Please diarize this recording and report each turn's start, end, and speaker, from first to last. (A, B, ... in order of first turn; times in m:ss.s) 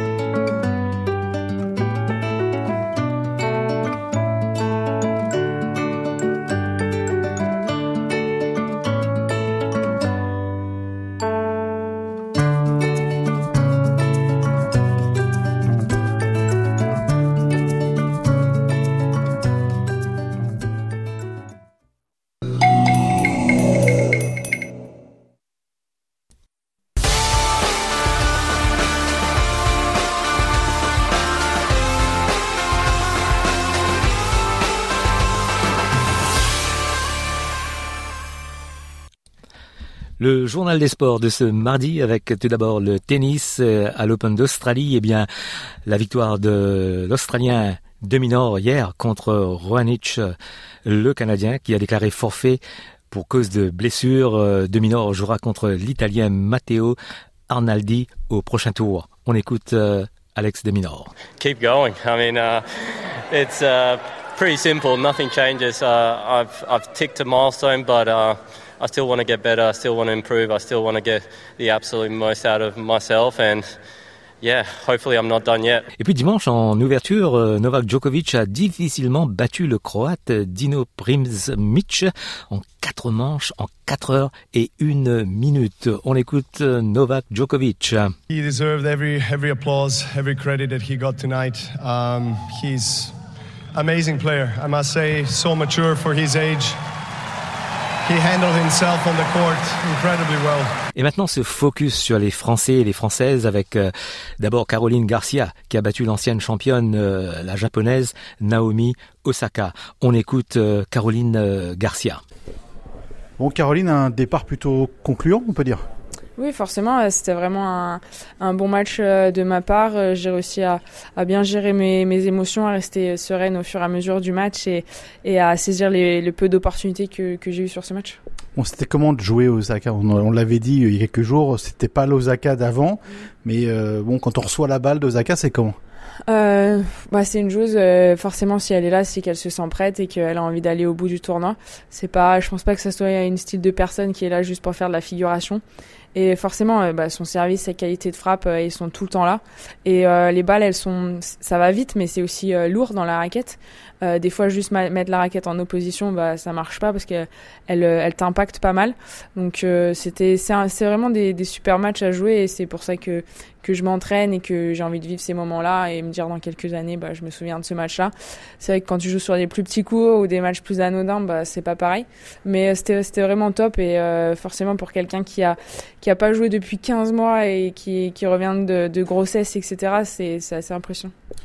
0:40.2-0:45.3 A
0:45.9-0:50.3 A
0:50.9-0:57.0 A
0:57.5-1:01.1 A
1:01.4-1:02.6 B
1:03.3-1:13.7 B
1:14.4-1:15.8 B
1:16.0-1:28.1 A
1:28.3-1:33.2 C
1:33.7-1:36.8 C
1:38.0-1:40.8 C
1:41.0-1:52.2 A
1:53.4-1:55.8 D
1:56.4-2:08.2 E
2:08.6-2:15.8 D
2:16.3-2:25.6 E
2:26.1-3:01.1 E